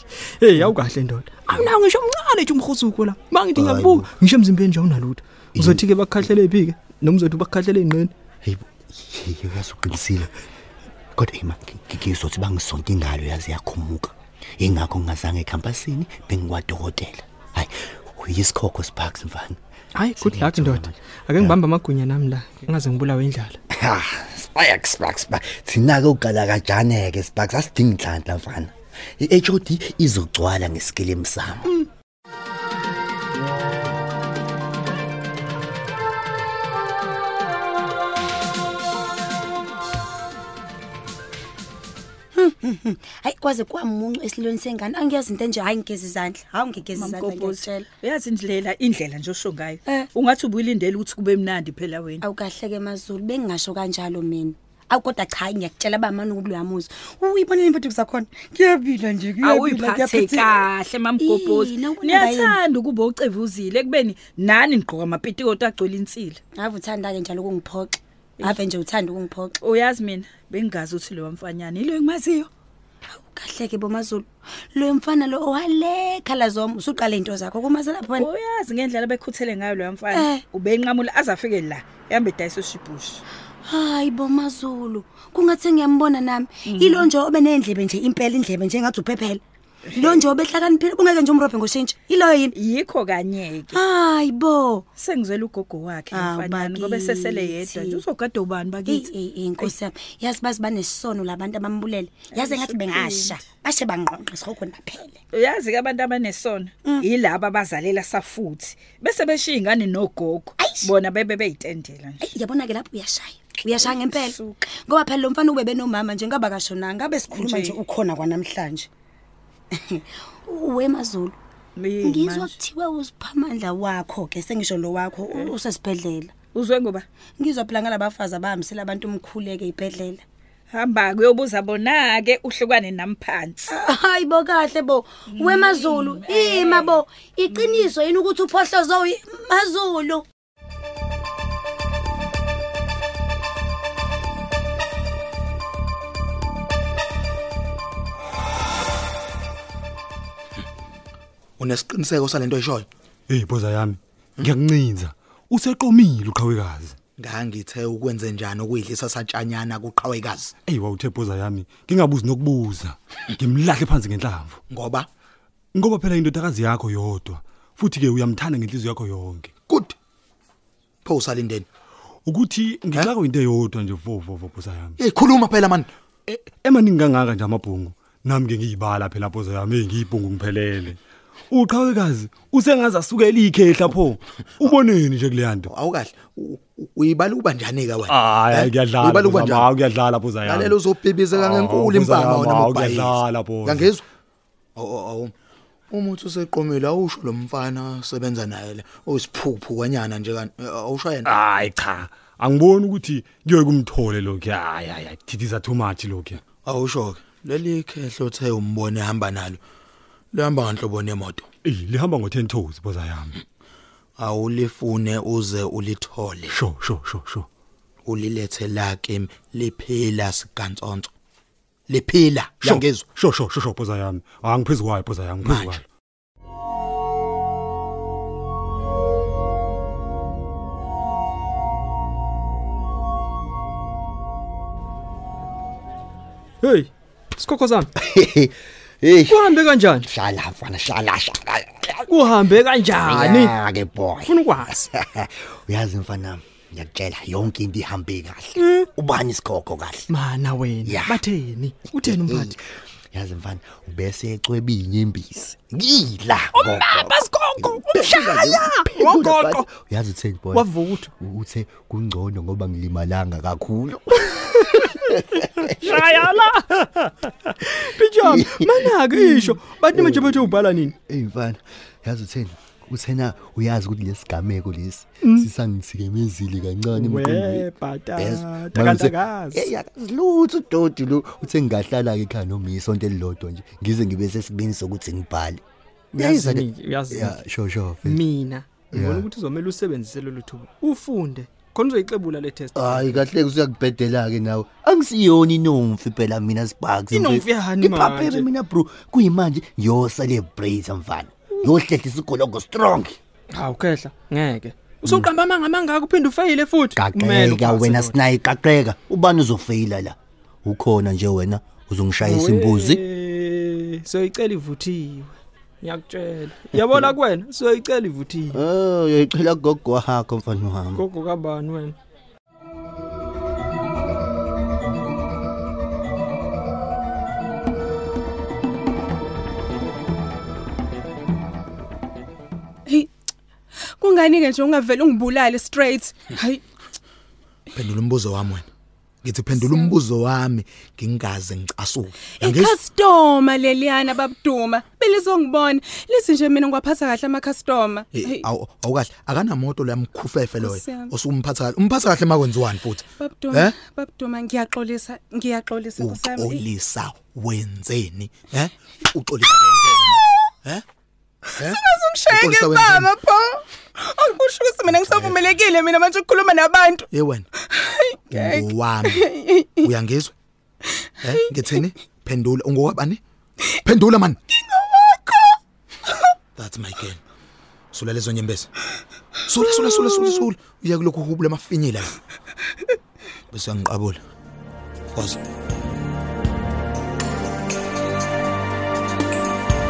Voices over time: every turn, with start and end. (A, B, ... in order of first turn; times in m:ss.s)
0:00.4-0:08.1 A
0:03.6-0:04.1 B
0:05.5-0:05.8 B
0:08.4-0:10.3 B
0:11.2-0:19.6 B
0:19.9-0:23.6 A
0:20.2-0:21.6 B
0:23.7-0:31.8 B
0:42.3-0:47.8 C
0:47.0-0:52.2 D
0:52.2-1:00.7 C
0:59.4-1:06.4 D
1:01.2-1:02.6 C
1:06.5-1:09.6 C
1:09.6-1:12.5 D
1:13.1-1:18.3 C
1:18.2-1:23.2 D
1:20.1-1:20.4 C
1:23.6-1:29.4 C
1:26.7-1:27.1 D
1:29.9-1:32.5 C
1:30.0-1:30.2 D
1:32.5-1:33.8 D
1:33.7-1:34.8 C
1:35.0-1:39.7 D
1:36.1-1:38.0 C
1:38.8-1:45.2 C
1:42.3-1:43.4 D
1:45.3-1:52.3 D
1:50.6-1:50.9 C
1:52.2-1:58.9 C
1:53.8-1:54.6 D
1:57.3-1:57.8 D
1:59.8-2:01.3 C
2:01.8-2:02.5 D
2:02.0-2:06.3 C
2:06.5-2:07.0 D
2:07.4-2:10.2 C
2:10.7-2:13.7 D
2:13.7-2:20.2 C
2:15.4-2:17.9 D
2:31.6-2:32.9 E
2:33.3-2:37.0 F
2:37.2-2:40.5 E
2:40.6-2:44.6 F
2:44.7-2:45.1 E
2:45.7-2:49.5 F
2:49.7-2:50.0 E
2:51.0-2:51.6 E
2:52.2-2:54.9 F
2:55.0-2:55.9 E
2:56.3-3:01.0 F
3:01.5-3:05.7 F
3:05.7-3:09.7 E
3:08.0-3:10.8 F
3:10.4-3:14.0 E
3:11.3-3:13.9 F
3:14.8-3:15.3 E
3:15.9-3:21.3 E
3:21.2-3:26.4 F
3:26.6-3:29.6 E
3:30.3-3:31.4 E
3:31.6-3:33.3 F
3:34.2-3:36.6 E
3:36.5-3:37.5 F
3:38.0-3:41.1 E
3:41.9-3:43.1 E
3:42.6-3:45.8 F
3:45.4-3:45.8 E
3:56.6-3:57.9 A
3:58.0-4:10.1 B
3:59.3-4:00.1 A
4:02.1-4:03.6 A
4:04.2-4:04.7 A
4:10.1-4:12.5 A
4:10.8-4:11.2 B
4:11.9-4:26.1 B
4:16.5-4:19.7 A
4:20.5-4:21.1 A
4:25.8-4:26.7 A
4:27.6-4:30.9 A
4:28.2-4:45.6 B
4:35.2-4:35.5 A
4:36.9-4:39.7 A
4:46.1-4:47.4 A
4:46.1-4:48.2 B
4:48.0-4:53.2 A
4:48.9-4:49.3 B
4:52.7-5:03.2 B
4:57.1-4:58.5 A
5:03.5-5:08.2 A
5:05.0-5:05.3 B
5:06.9-5:13.0 B
5:12.2-5:18.6 A
5:16.7-5:17.1 B
5:18.5-5:21.0 B
5:20.9-5:22.0 A
5:34.0-5:36.6 G
5:37.7-5:38.6 E
5:39.2-5:42.8 E
5:39.5-5:39.9 G
5:42.4-5:48.4 G
5:48.1-5:53.7 E
5:50.6-5:51.1 G
5:53.2-5:56.6 G
5:56.0-6:00.8 E
6:01.5-6:07.1 G
6:01.6-6:03.1 E
6:04.9-6:05.4 E
6:07.1-6:07.5 E
6:07.7-6:09.9 G
6:08.3-6:09.2 E
6:09.8-6:10.3 E
6:11.2-6:13.2 E
6:11.2-6:11.8 G
6:13.8-6:14.4 E
6:14.7-6:15.5 G
6:16.5-6:17.2 E
6:17.9-6:18.7 E
6:19.4-6:22.1 E
6:23.5-6:24.2 E
6:25.1-6:25.4 E